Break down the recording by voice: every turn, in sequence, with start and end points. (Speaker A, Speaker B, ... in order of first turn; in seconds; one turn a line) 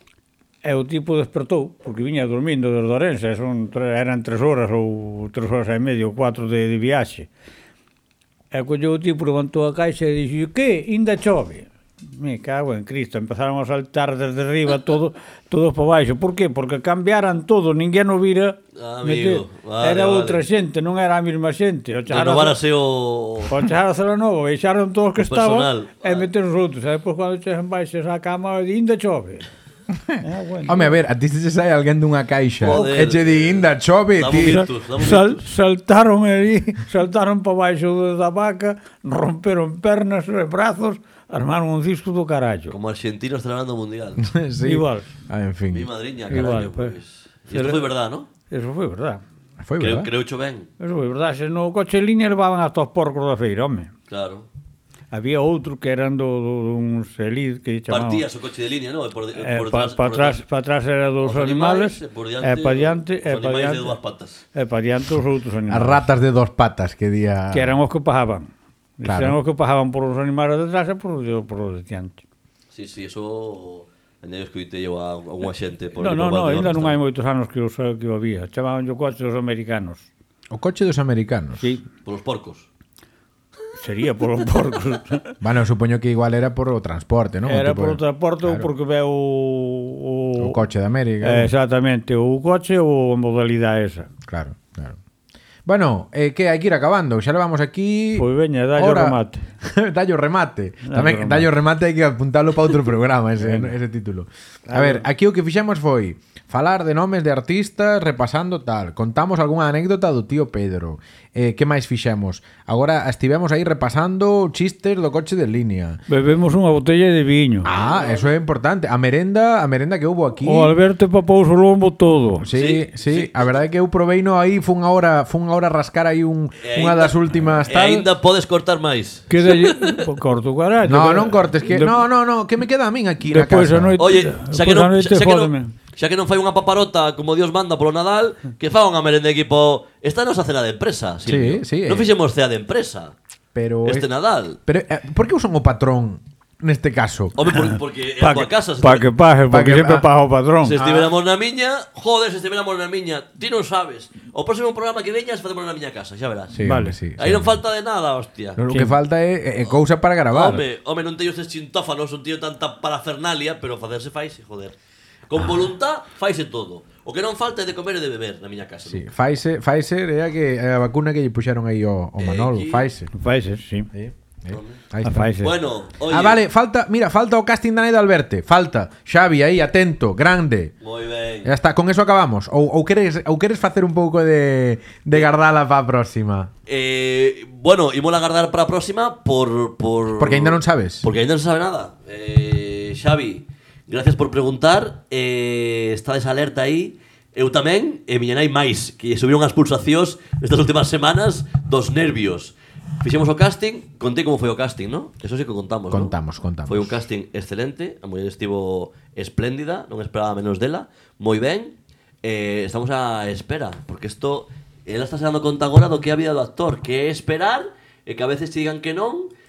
Speaker A: 0.6-7.3
Speaker A: 8.5-22.6
Speaker B: 18.8-20.4
Speaker B: 22.1-23.5
Speaker A: 23.5-29.5
Speaker B: 25.2-26.3
Speaker C: 30.1-34.7
Speaker A: 30.2-31.0
Speaker B: 32.6-35.4
Speaker A: 34.3-42.8
Speaker B: 42.7-44.3
Speaker C: 44.2-46.5
Speaker A: 44.6-45.1
Speaker B: 45.7-48.3
Speaker A: 46.3-47.0
Speaker A: 47.5-47.9
Speaker A: 48.5-49.2
Speaker C: 49.6-50.1
Speaker B: 49.8-50.7
Speaker A: 50.8-53.9
Speaker B: 54.1-54.5
Speaker A: 55.1-58.2
Speaker B: 57.9-60.4
Speaker A: 59.4-64.0
Speaker B: 61.2-64.4
Speaker A: 64.5-66.1
Speaker C: 65.7-67.8
Speaker A: 67.5-72.2
Speaker C: 69.0-69.4
Speaker B: 72.7-77.0
Speaker A: 76.0-80.1
Speaker C: 80.5-81.7
Speaker A: 81.6-81.9
Speaker B: 82.0-82.7
Speaker A: 83.8-85.4
Speaker C: 85.4-88.7
Speaker A: 87.5-90.6
Speaker C: 90.4-91.5
Speaker A: 91.2-94.1
Speaker C: 94.3-95.0
Speaker C: 95.7-116.0
Speaker A: 98.1-99.5
Speaker A: 100.8-101.5
Speaker A: 103.4-103.7
Speaker A: 104.7-105.0
Speaker A: 116.1-117.7
Speaker C: 117.6-120.8
Speaker B: 117.8-118.2
Speaker A: 120.4-122.5
Speaker C: 122.4-128.1
Speaker B: 122.5-123.6
Speaker B: 126.6-130.1
Speaker A: 129.3-132.0
Speaker C: 130.8-134.0
Speaker A: 133.2-135.7
Speaker B: 134.0-143.2
Speaker C: 141.3-142.1
Speaker C: 143.5-144.1
Speaker B: 143.8-144.6
Speaker C: 144.7-147.3
Speaker B: 147.4-149.1
Speaker A: 148.2-150.9
Speaker C: 149.5-150.1
Speaker B: 150.6-156.6
Speaker C: 156.5-157.6
Speaker A: 156.6-156.9
Speaker B: 157.2-158.6
Speaker C: 158.6-160.6
Speaker A: 158.7-159.0
Speaker B: 160.3-164.8
Speaker B: 165.3-169.1
Speaker C: 168.9-173.1
Speaker B: 172.2-172.9
Speaker A: 173.1-173.9
Speaker C: 173.9-175.3
Speaker B: 174.5-174.8
Speaker A: 175.0-175.5
Speaker B: 175.4-176.4
Speaker C: 176.1-180.7
Speaker B: 180.8-181.5
Speaker C: 181.4-186.5
Speaker B: 186.7-206.1
Speaker C: 190.1-191.1
Speaker C: 205.9-207.0
Speaker B: 206.7-219.3